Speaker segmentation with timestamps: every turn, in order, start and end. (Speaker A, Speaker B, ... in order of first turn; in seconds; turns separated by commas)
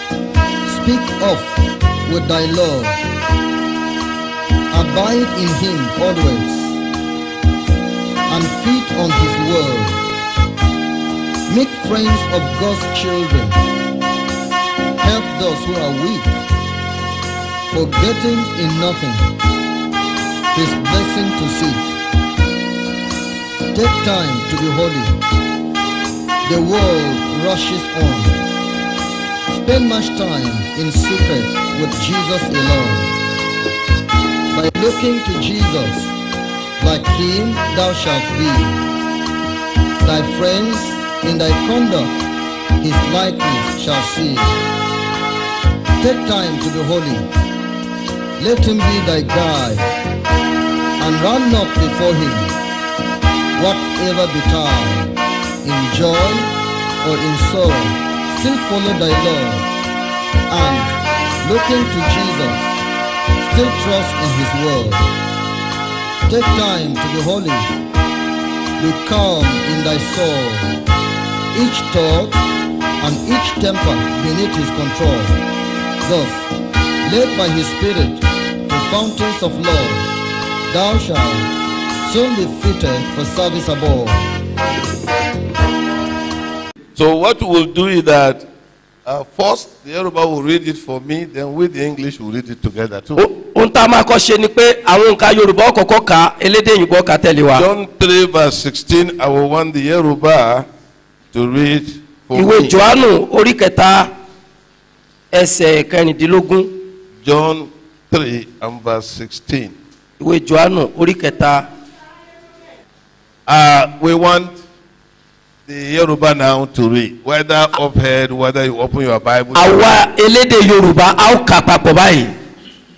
Speaker A: 0.7-3.0, Speaker A: 4.7-6.8, Speaker A: 8.3-10.0, Speaker A: 11.5-13.6, Speaker A: 15.0-16.4, Speaker A: 17.7-19.3, Speaker A: 20.5-21.9, Speaker A: 23.7-25.2, Speaker A: 26.4-28.4, Speaker A: 29.5-33.1, Speaker A: 34.5-36.1, Speaker A: 36.8-38.9, Speaker A: 40.0-42.1, Speaker A: 42.8-44.6, Speaker A: 46.0-47.3, Speaker A: 48.4-49.9, Speaker A: 51.0-52.6, Speaker A: 53.5-59.7, Speaker A: 60.5-62.7, Speaker A: 63.4-65.1, Speaker A: 66.2-67.7, Speaker A: 68.8-70.7, Speaker A: 71.5-72.4, Speaker A: 73.0-75.4, Speaker A: 76.0-76.5, Speaker A: 77.0-80.1, Speaker A: 80.7-81.5, Speaker A: 82.0-84.3, Speaker B: 87.0-88.5, Speaker B: 89.0-93.2, Speaker C: 93.2-97.6, Speaker B: 97.5-100.7, Speaker B: 101.3-102.8, Speaker C: 102.3-104.1, Speaker C: 105.3-106.7, Speaker B: 107.2-109.7, Speaker C: 110.2-111.7, Speaker B: 113.5-114.6, Speaker B: 115.7-120.0, Speaker C: 119.5-122.3